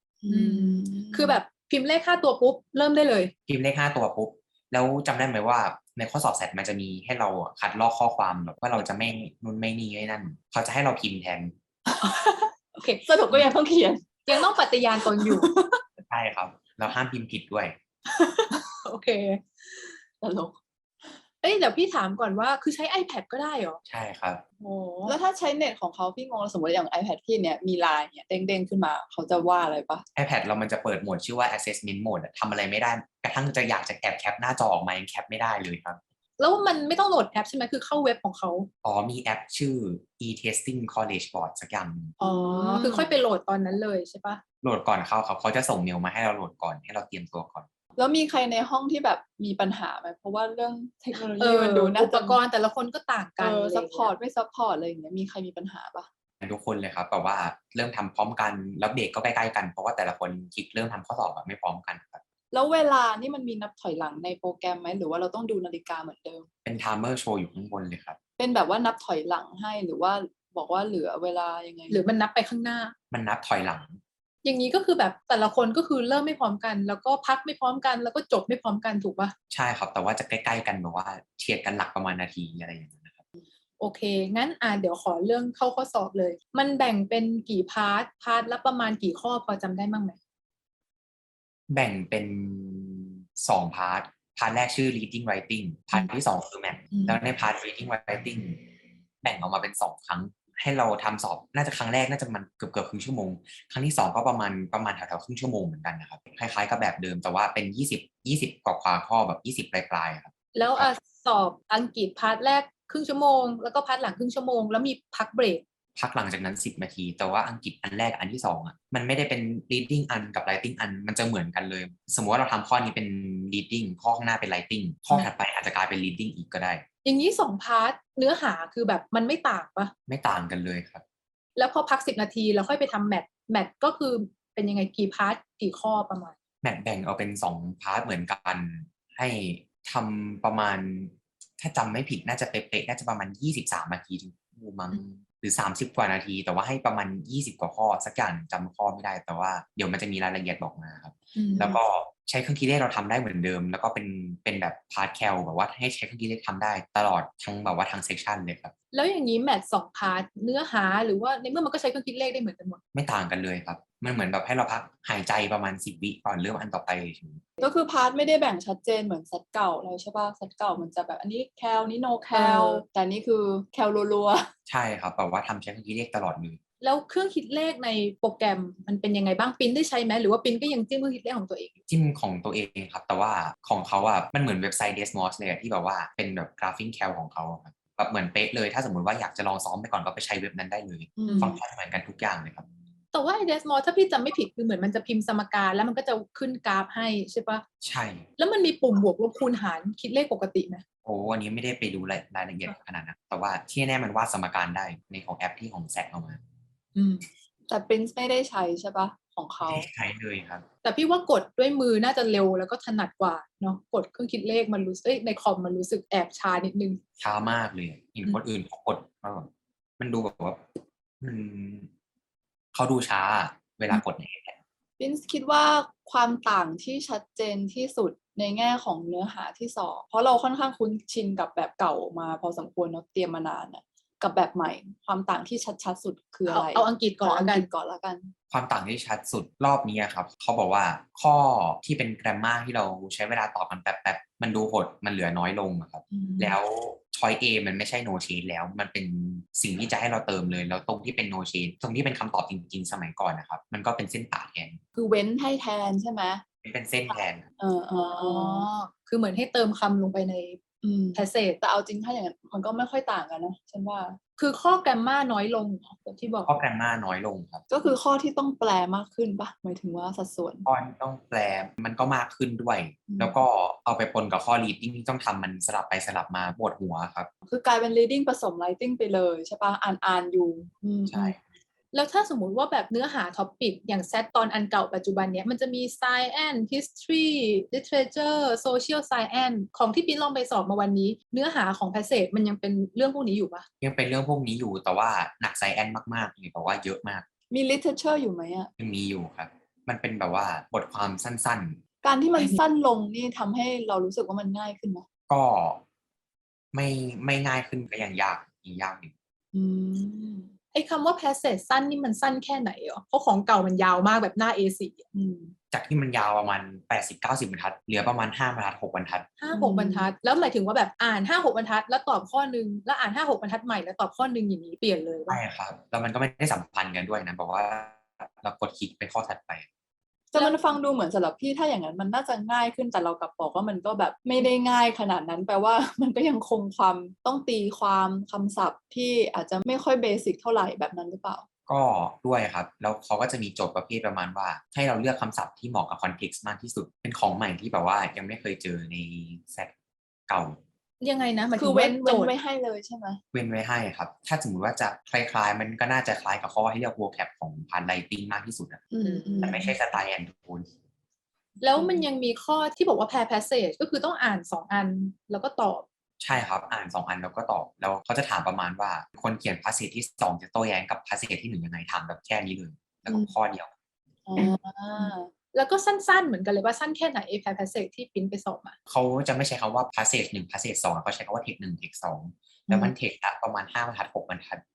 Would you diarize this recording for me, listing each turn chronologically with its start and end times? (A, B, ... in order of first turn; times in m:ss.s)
0:00.2-0:01.4 A
0:00.3-0:03.3 B
0:03.5-0:11.5 C
0:11.9-0:12.2 A
0:12.0-0:13.1 B
0:13.0-0:15.8 A
0:14.3-0:15.5 B
0:16.1-0:17.8 C
0:18.1-0:20.0 B
0:20.2-0:20.6 A
0:21.4-0:23.8 B
0:23.9-0:24.4 C
0:24.6-0:25.2 B
0:25.1-0:30.0 A
0:30.2-0:36.0 C
0:36.4-0:38.7 B
0:38.8-0:42.2 C
0:42.2-0:43.2 A
0:42.2-0:44.4 B
0:44.6-0:47.7 C
0:48.0-0:52.4 A
0:51.4-0:54.1 B
0:53.4-0:56.1 A
0:56.4-1:02.2 C
1:02.5-1:06.5 A
1:06.6-1:08.2 C
1:08.4-1:12.0 A
1:11.9-1:12.9 B
1:13.1-1:14.0 C
1:14.4-1:19.3 B
1:19.5-1:23.2 C
1:23.8-1:30.2 B
1:31.7-1:38.6 C
1:39.2-1:50.9 C
1:50.6-1:55.6 B
1:56.0-2:06.8 C
2:07.0-2:09.9 B
2:10.1-2:11.0 C
2:11.6-2:16.3 B
2:16.6-2:38.7 C
2:31.4-2:31.8 B
2:38.9-2:42.8 B
2:42.9-2:47.4 C
2:47.6-2:54.5 A
2:52.3-2:52.8 B
2:54.7-2:56.6 C
2:56.8-3:01.8 B
3:01.9-3:12.6 C
3:11.2-3:11.6 A
3:11.3-3:11.5 B
3:13.1-3:17.6 B
3:17.8-3:18.3 C
3:18.4-3:20.8 B
3:21.0-3:26.4 C
3:27.0-3:27.3 B
3:27.7-3:29.9 A
3:29.7-3:30.7 C
3:30.8-3:37.0 B
3:37.2-3:40.6 C
3:41.2-3:41.9 C
3:42.7-3:44.6 C
3:45.0-3:58.3 A
3:56.5-3:57.7 B
3:58.5-4:14.8 C
4:06.2-4:06.5 A
4:15.0-4:16.4 A
4:16.6-4:17.4 C
4:17.6-4:18.7 A
4:18.2-4:20.6 B
4:20.8-4:24.2 A
4:21.1-4:21.6 B
4:24.4-4:26.5 B
4:26.5-4:27.6 C
4:27.7-4:30.7 A
4:30.6-4:37.3 C
4:33.1-4:33.4 A
4:37.4-4:41.4 A
4:41.1-4:41.4 C
4:41.9-4:53.7 B
4:53.8-4:57.2 C
4:57.5-4:58.7 A
4:58.8-5:01.8 C
5:02.0-5:05.1 A
5:02.4-5:02.6 B
5:05.3-5:05.8 C
5:06.7-5:09.1 C
5:09.5-5:10.5 A
5:10.7-5:15.0 B
5:15.1-5:15.6 A
5:15.7-5:19.3 C
5:19.4-5:25.4 B
5:19.5-5:20.1 A
5:25.3-5:29.7 C
5:30.3-5:41.4 A
5:30.4-5:30.6 B
5:41.7-5:49.7 C
5:50.3-5:50.6 C
5:51.0-5:52.3 B
5:51.6-5:53.2 A
5:53.3-5:58.8 C
5:58.9-5:59.7 A
5:59.0-5:59.6 B
5:59.4-6:00.7 C
6:01.6-6:05.8 B
6:01.8-6:02.1 A
6:06.2-6:13.7 C
6:13.1-6:13.3 A
6:14.3-6:15.3 A
6:14.4-6:18.8 B
6:18.9-6:24.6 C